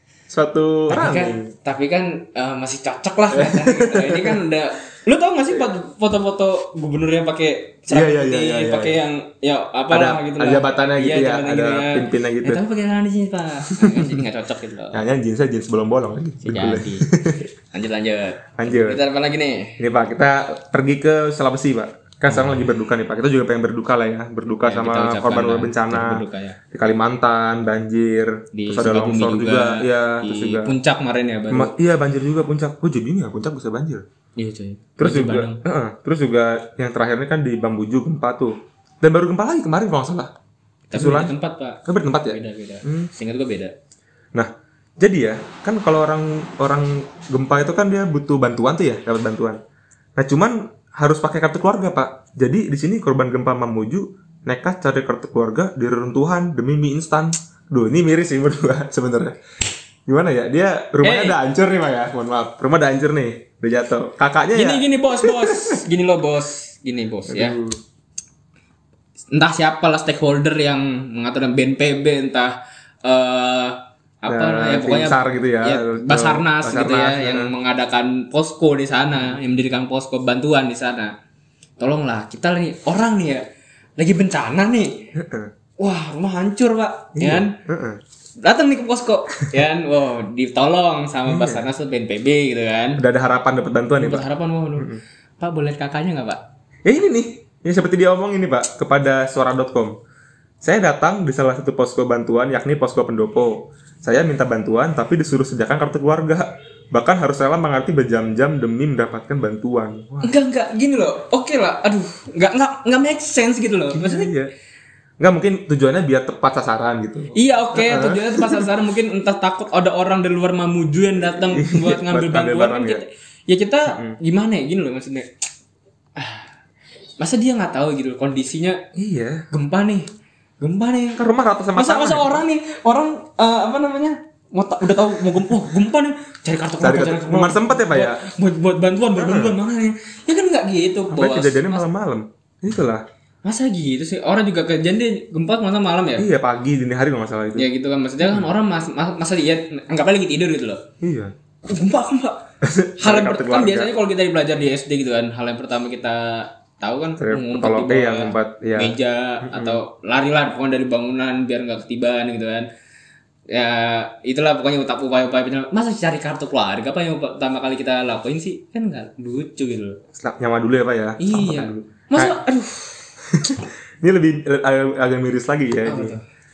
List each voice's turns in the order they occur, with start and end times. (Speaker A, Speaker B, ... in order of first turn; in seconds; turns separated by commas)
Speaker A: 0.3-1.5, Speaker B: 0.9-15.0, Speaker A: 3.3-4.4, Speaker A: 7.9-9.0, Speaker A: 9.9-12.6, Speaker A: 13.7-14.2, Speaker A: 14.9-17.5, Speaker B: 16.4-17.1, Speaker B: 17.7-19.8, Speaker A: 18.6-19.0, Speaker A: 19.8-26.2, Speaker B: 22.3-22.7, Speaker B: 24.6-26.6, Speaker A: 26.7-30.7, Speaker B: 28.5-31.7, Speaker A: 31.5-34.0, Speaker B: 34.4-35.6, Speaker A: 35.0-40.3, Speaker B: 40.9-43.7, Speaker A: 40.9-41.3, Speaker A: 41.8-43.1, Speaker A: 44.3-49.6, Speaker A: 50.2-59.4, Speaker A: 60.1-65.8, Speaker B: 61.0-61.4, Speaker B: 64.5-67.6, Speaker A: 67.3-67.8, Speaker B: 69.3-81.1, Speaker A: 74.3-77.5, Speaker B: 81.8-83.4, Speaker B: 84.0-85.1, Speaker A: 85.2-85.5, Speaker B: 85.8-87.5, Speaker A: 87.2-88.0, Speaker B: 88.4-93.0, Speaker A: 91.2-91.6, Speaker A: 93.0-94.2, Speaker B: 94.0-96.4, Speaker A: 94.8-95.0, Speaker A: 96.8-100.0, Speaker A: 100.6-110.3, Speaker B: 110.2-114.3, Speaker A: 113.9-114.5, Speaker A: 115.2-118.7, Speaker B: 117.3-125.3, Speaker A: 121.3-123.0, Speaker A: 123.9-124.2, Speaker B: 126.2-126.5, Speaker B: 127.2-128.8, Speaker A: 128.9-129.5, Speaker B: 129.5-130.1, Speaker B: 130.6-131.2, Speaker A: 131.2-132.4, Speaker B: 131.8-141.8, Speaker A: 136.8-138.2, Speaker A: 139.2-139.6, Speaker A: 141.1-143.0, Speaker B: 143.4-146.3, Speaker A: 146.2-147.7, Speaker B: 147.6-150.8, Speaker A: 148.2-148.5, Speaker A: 151.0-151.3, Speaker B: 151.7-152.4, Speaker A: 152.6-153.9, Speaker B: 153.0-162.7, Speaker A: 157.2-159.8, Speaker B: 163.5-170.0, Speaker A: 170.2-172.4, Speaker B: 171.2-173.1, Speaker A: 173.3-176.1, Speaker B: 175.8-176.2